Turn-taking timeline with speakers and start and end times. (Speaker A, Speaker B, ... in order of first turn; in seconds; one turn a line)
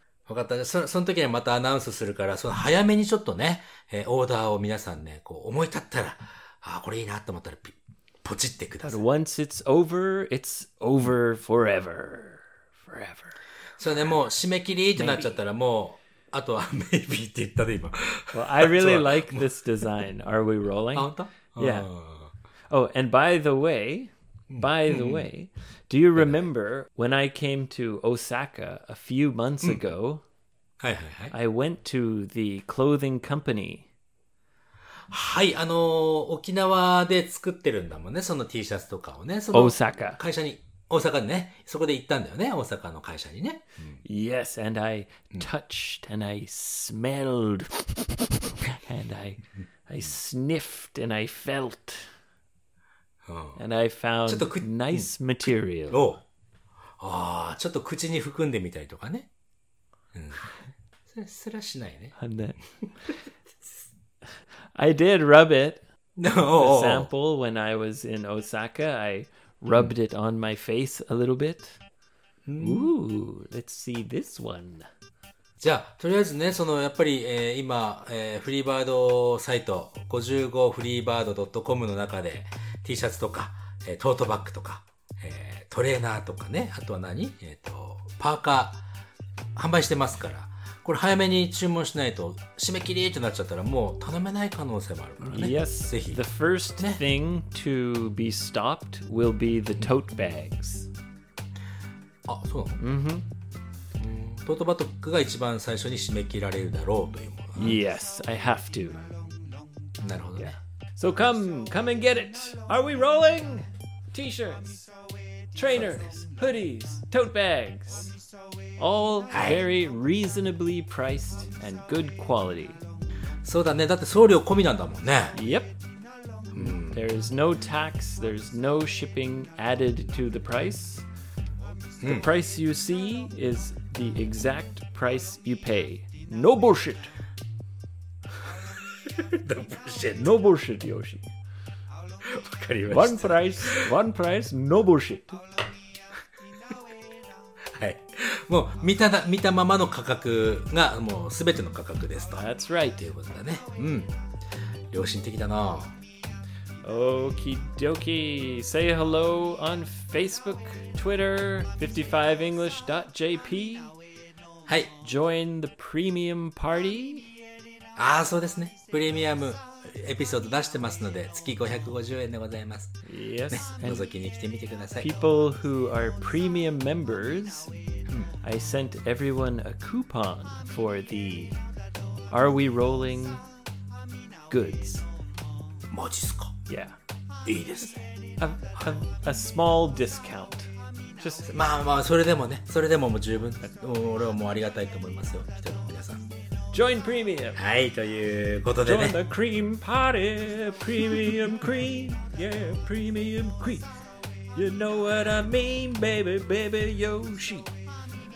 Speaker A: 0.3-9.0
Speaker B: 8.8-13.3
Speaker A: 13.8-19.4
Speaker B: 15.0-15.3
Speaker B: 18.3-21.9
Speaker A: 20.9-22.3
Speaker B: 22.7-30.2
Speaker A: 24.5-25.3
Speaker A: 26.2-26.4
Speaker A: 30.8-31.3
Speaker B: 31.3-33.9
Speaker A: 35.1-44.0
Speaker B: 39.5-40.2
Speaker B: 44.0-52.1
Speaker A: 53.2-53.6
Speaker B: 53.5-56.0
Speaker A: 54.3-55.1
Speaker A: 55.9-56.2
Speaker A: 57.0-59.3
Speaker A: 60.1-60.4
Speaker A: 61.1-62.1
Speaker B: 62.2-62.6
Speaker B: 64.8-65.8
Speaker A: 66.2-67.1
Speaker B: 66.6-71.8
Speaker A: 72.5-72.9
Speaker B: 72.6-74.9
Speaker A: 75.6-88.8
Speaker A: 89.5-96.2
Speaker B: 95.2-100.9
Speaker A: 102.2-102.8
Speaker B: 102.8-103.2
Speaker A: 104.0-107.8
Speaker B: 107.5-109.0
Speaker A: 110.0-110.6
Speaker B: 110.3-114.9
Speaker B: 115.5-118.1
Speaker A: 115.7-116.0
Speaker B: 118.8-122.8
Speaker A: 119.3-119.6
Speaker A: 123.4-125.3
Speaker B: 125.3-125.7
Speaker A: 126.5-127.0
Speaker B: 126.5-131.0
Speaker A: 132.0-132.2
Speaker B: 132.0-137.1
Speaker A: 139.0-140.3
Speaker B: 140.2-141.3
Speaker A: 142.2-143.9
Speaker B: 142.9-145.4
Speaker A: 147.7-152.4
Speaker B: 152.3-153.1
Speaker A: 153.0-154.1
Speaker A: 154.9-155.9
Speaker B: 156.8-163.9
Speaker A: 164.7-164.9
Speaker B: 165.0-167.3
Speaker A: 167.9-172.9
Speaker B: 173.0-174.0
Speaker A: 173.5-175.1
Speaker B: 175.0-177.7
Speaker B: 178.4-181.5
Speaker B: 182.3-183.4
Speaker B: 184.5-185.0
Speaker A: 185.9-186.5
Speaker B: 186.7-186.9
Speaker A: 187.4-188.1
Speaker B: 188.4-191.5
Speaker A: 191.4-196.2
Speaker B: 196.7-197.6
Speaker A: 197.6-199.2
Speaker B: 198.8-203.9
Speaker B: 204.5-207.7